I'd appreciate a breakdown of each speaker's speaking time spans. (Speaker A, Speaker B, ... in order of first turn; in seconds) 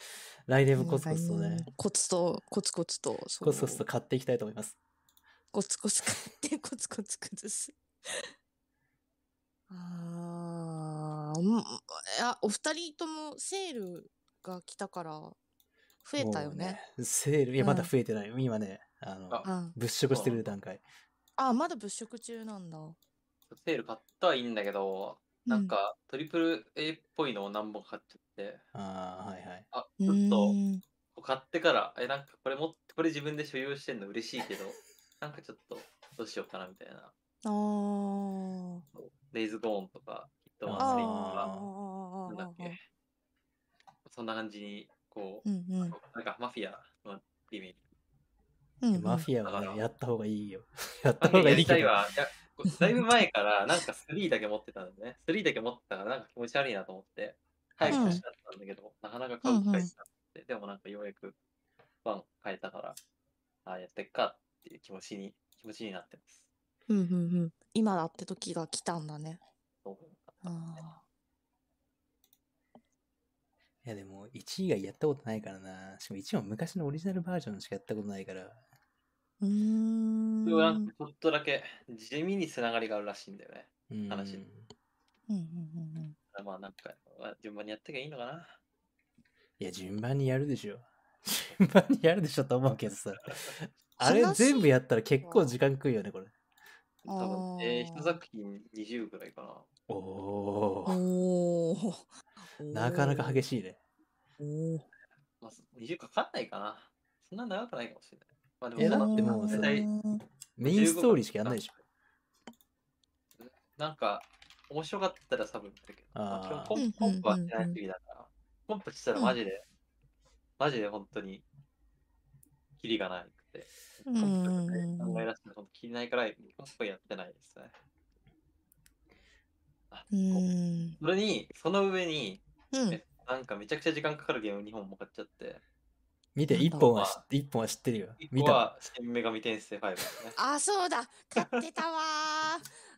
Speaker A: 0.5-1.7, 3.4-4.8, 16.2-20.8, 28.8-29.6, 40.7-41.7, 48.9-51.9, 57.8-58.2, 73.8-78.6, 83.9-84.7, 89.6-96.3, 99.9-101.0, 102.7-103.8, 108.8-109.8, 110.6-111.7, 116.2-116.8, 136.3-138.7
Speaker B: 0.8-3.8, 5.5-8.3, 9.7-15.4, 16.0-16.8, 17.6-17.9, 19.4-19.8, 21.4-23.0, 25.5-25.7, 30.0-30.8, 37.5-38.9, 40.8-42.8, 45.5-46.0, 48.8-49.3, 52.7-53.0, 57.9-58.2, 59.4-59.9, 66.9-69.4, 70.4-71.0, 79.4-80.9, 85.3-86.2, 94.0-95.5, 97.1-98.2, 100.9-103.5, 104.4-104.9, 108.8-110.2, 116.8-117.8, 124.1-125.3, 130.1-131.0, 132.7-133.0, 136.5-136.9, 140.4-142.7
Speaker C: 20.1-20.5, 23.5-28.6, 29.7-30.6, 31.1-37.1, 38.9-41.5, 42.3-42.8, 44.1-47.8, 49.4-49.8, 51.2-61.4, 62.0-63.0, 63.6-66.5, 69.8-70.6, 80.5-84.4, 86.3-88.6, 97.0-99.7, 105.4-109.9, 110.6-111.8, 113.4-119.6, 120.6-121.4, 122.8-127.7, 129.9-130.5, 131.0-135.6, 136.9-137.2, 138.2-140.4, 141.4-141.6